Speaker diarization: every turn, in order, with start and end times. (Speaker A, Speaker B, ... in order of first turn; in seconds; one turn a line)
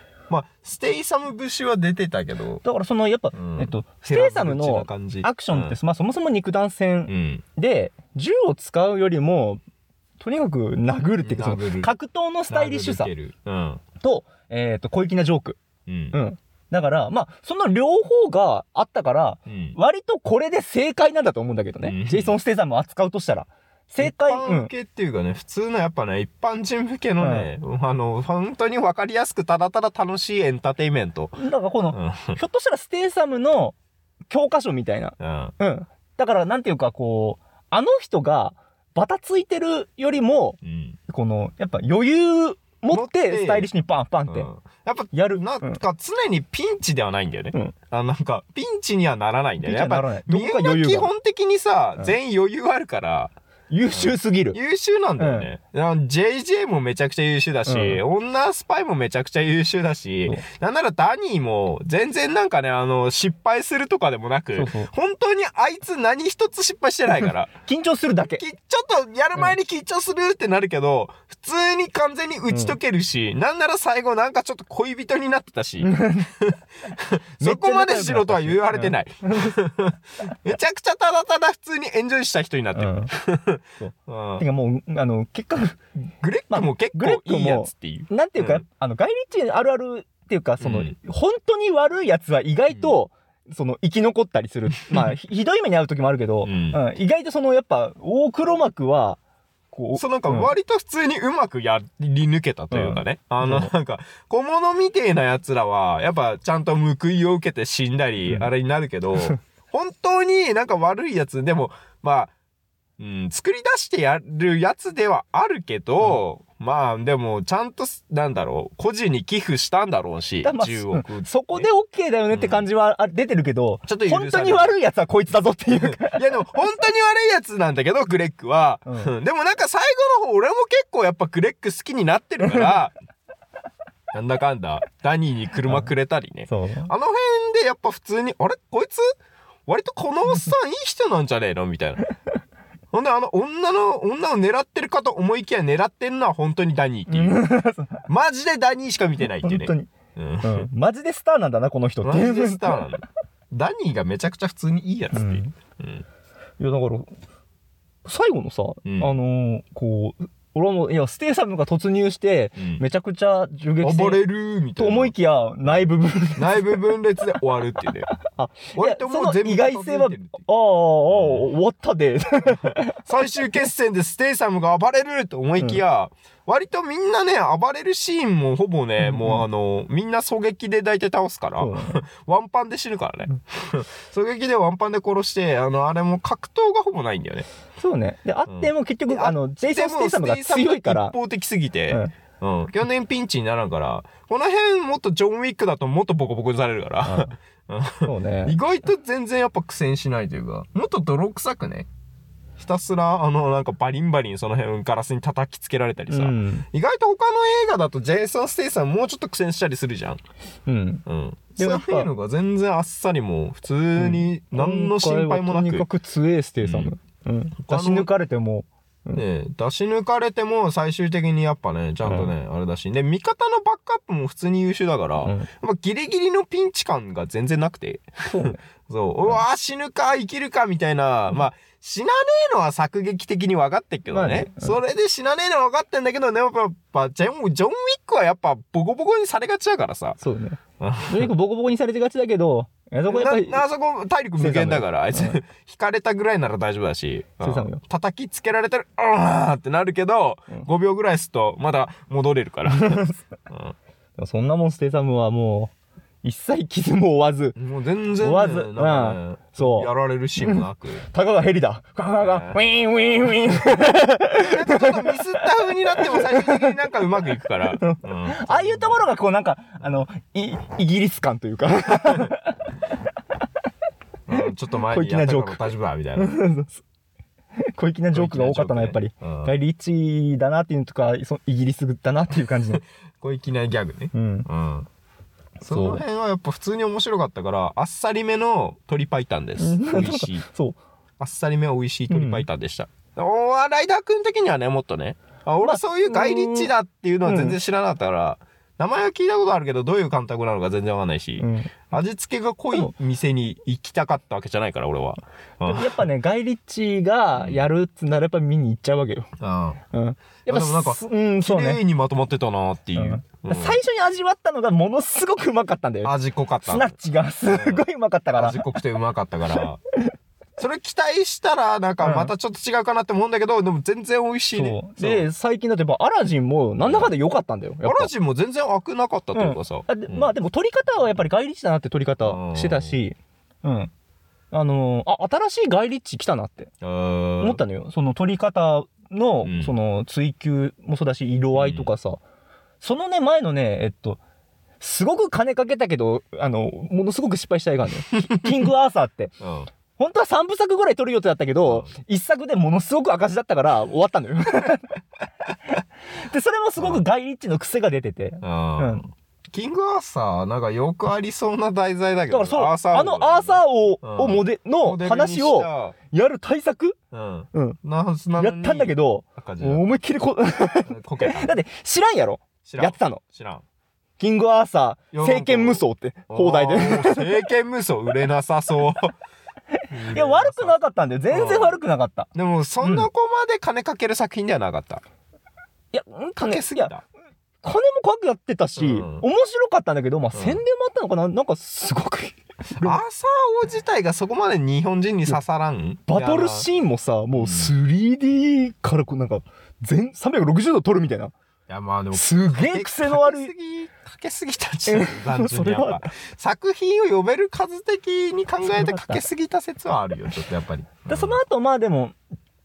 Speaker A: 0.3-2.6
Speaker B: 2.6-9.6
Speaker A: 3.3-5.8
Speaker A: 7.1-7.4
Speaker B: 10.2-13.1
Speaker A: 11.2-11.9
Speaker A: 12.5-13.8
Speaker B: 14.0-15.6
Speaker A: 15.9-16.1
Speaker B: 16.1-24.7
Speaker A: 19.5-19.8
Speaker A: 21.8-22.4
Speaker A: 24.0-31.4
Speaker B: 27.2-27.5
Speaker B: 31.4-33.8
Speaker A: 31.9-32.4
Speaker B: 34.3-44.5
Speaker A: 35.2-35.5
Speaker A: 40.6-41.0
Speaker A: 42.9-43.7
Speaker A: 44.3-53.3
Speaker B: 45.1-45.8
Speaker B: 49.6-51.1
Speaker B: 53.7-54.6
Speaker A: 53.9-67.5
Speaker B: 55.2-55.5
Speaker B: 57.6-58.0
Speaker B: 64.5-64.9
Speaker B: 67.7-68.4
Speaker A: 68.4-84.4
Speaker B: 75.8-76.3
Speaker B: 77.4-79.5
Speaker B: 82.7-83.1
Speaker B: 83.8-85.8
Speaker A: 86.2-88.6
Speaker B: 86.5-99.2
Speaker A: 90.6-90.9
Speaker A: 92.7-93.0
Speaker A: 96.4-96.8
Speaker B: 99.7-100.5
Speaker A: 99.9-112.3
Speaker B: 102.7-103.7
Speaker A: 113.0-121.7
Speaker B: 120.4-126.2
Speaker A: 122.3-122.7
Speaker A: 123.8-124.7
Speaker A: 125.7-132.9
Speaker A: 134.1-139.0
Speaker B: 136.5-136.9
Speaker A: 139.7-142.0
Speaker A: 142.9-147.5
Speaker B: 147.1-148.1
Speaker A: 148.1-150.7
Speaker B: 149.4-152.8
Speaker A: 152.0-156.0
Speaker B: 155.1-155.5
Speaker B: 156.6-157.1
Speaker B: 158.0-164.2
Speaker A: 158.8-159.1
Speaker A: 162.6-162.8
Speaker A: 163.8-165.1
Speaker B: 164.8-166.8
Speaker A: 166.3-168.1
Speaker B: 168.2-172.9
Speaker A: 168.7-170.4
Speaker A: 171.1-171.4
Speaker A: 172.4-187.4
Speaker B: 179.0-179.4
Speaker B: 181.6-182.0
Speaker B: 187.8-191.2
Speaker A: 188.5-201.9
Speaker B: 197.0-197.3
Speaker B: 198.0-198.6
Speaker A: 202.6-210.2
Speaker B: 206.1-206.7
Speaker B: 210.7-211.0
Speaker A: 211.1-215.9
Speaker B: 211.6-212.1
Speaker B: 213.9-219.2
Speaker A: 216.6-216.9
Speaker A: 217.6-218.1
Speaker A: 219.1-240.2
Speaker B: 222.0-222.3
Speaker B: 225.2-225.5
Speaker B: 228.2-228.6
Speaker B: 234.1-234.8
Speaker B: 240.2-243.6
Speaker A: 240.8-241.3
Speaker A: 243.1-253.8
Speaker B: 244.4-245.4
Speaker B: 247.4-247.8
Speaker B: 252.7-253.1
Speaker B: 254.2-257.6
Speaker A: 257.6-261.0
Speaker B: 258.2-265.4
Speaker A: 262.2-262.6
Speaker A: 264.3-269.0
Speaker B: 265.9-266.7
Speaker B: 267.8-272.6
Speaker A: 274.3-276.4
Speaker B: 274.4-276.8
Speaker B: 277.7-282.8
Speaker A: 278.1-279.5
Speaker A: 282.7-284.9
Speaker B: 284.1-284.5
Speaker A: 285.6-290.4
Speaker B: 285.7-286.0
Speaker B: 289.6-290.8
Speaker A: 291.2-306.0
Speaker B: 292.1-292.4
Speaker B: 295.6-296.7
Speaker B: 297.2-297.6
Speaker B: 301.4-301.7
Speaker B: 305.6-309.3
Speaker A: 307.4-307.6
Speaker A: 309.4-309.8
Speaker B: 309.9-311.8
Speaker A: 310.4-313.8
Speaker B: 312.9-316.1
Speaker A: 316.0-316.9
Speaker B: 316.6-318.7
Speaker A: 317.5-319.8
Speaker A: 320.6-325.3
Speaker B: 322.0-322.3
Speaker B: 324.5-328.1
Speaker A: 326.8-327.1
Speaker A: 327.8-330.3
Speaker B: 329.3-333.9
Speaker A: 332.2-333.0
Speaker B: 334.5-336.7
Speaker A: 336.8-337.6
Speaker B: 337.4-342.2
Speaker A: 339.4-339.7
Speaker A: 341.5-341.9
Speaker B: 342.8-344.2
Speaker B: 344.8-349.3
Speaker A: 349.4-349.7
Speaker B: 349.9-354.9
Speaker B: 356.2-359.1
Speaker A: 356.8-357.0
Speaker A: 358.4-365.9
Speaker B: 362.3-367.0
Speaker A: 367.1-369.9
Speaker B: 367.5-367.8
Speaker B: 368.4-373.2
Speaker A: 370.9-371.5
Speaker A: 372.6-373.6
Speaker B: 374.2-377.3
Speaker A: 375.1-379.1
Speaker A: 379.9-380.8
Speaker B: 380.0-382.3
Speaker A: 381.3-381.8
Speaker A: 382.3-385.0
Speaker B: 382.8-383.1
Speaker B: 385.9-386.9
Speaker A: 386.4-387.0
Speaker B: 387.6-393.0
Speaker A: 388.8-389.2
Speaker A: 390.3-390.6
Speaker A: 392.8-396.7
Speaker B: 396.1-401.3
Speaker A: 397.3-397.7
Speaker A: 401.7-411.4
Speaker B: 402.1-403.5
Speaker B: 404.9-406.1
Speaker B: 408.6-409.2
Speaker B: 411.1-412.1